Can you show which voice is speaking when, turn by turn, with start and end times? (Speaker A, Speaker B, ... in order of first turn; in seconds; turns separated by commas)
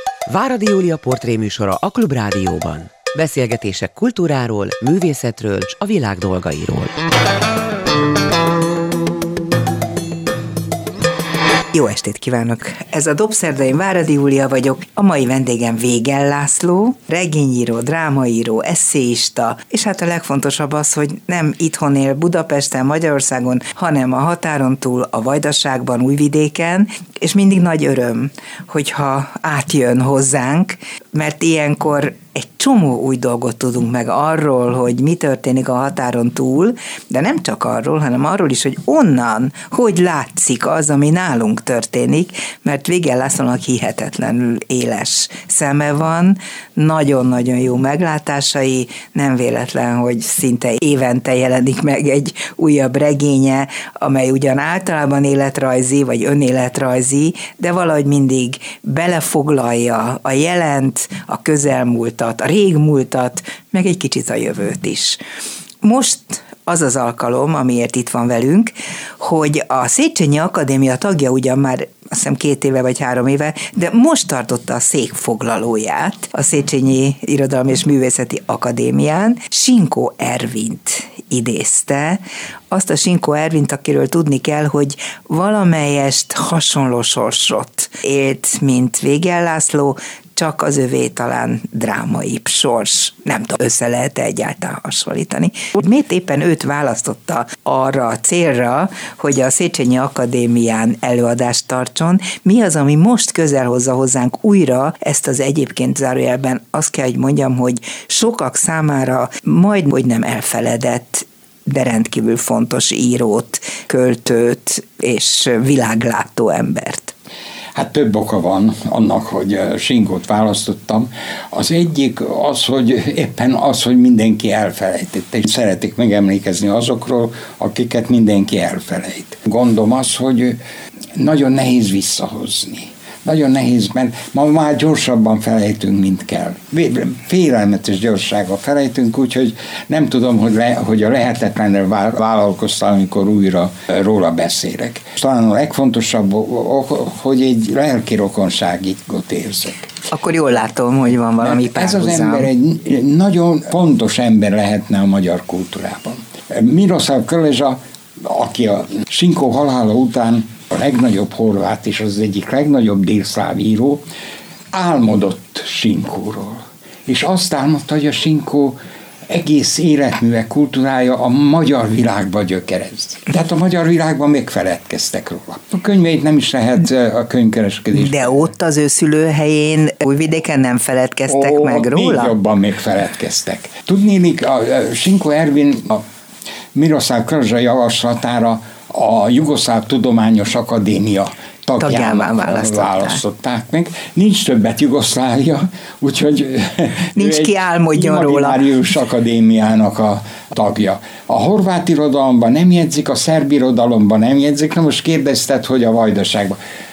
Speaker A: 0.3-7.0, Speaker B: 11.7-65.2, Speaker B: 65.8-117.1, Speaker C: 117.8-130.6, Speaker C: 131.2-149.9, Speaker B: 150.1-152.5, Speaker C: 151.4-164.0, Speaker C: 164.7-168.8, Speaker C: 169.3-178.5, Speaker B: 177.9-182.3, Speaker C: 181.3-186.0, Speaker C: 186.8-206.6, Speaker B: 191.8-193.2, Speaker B: 197.2-198.6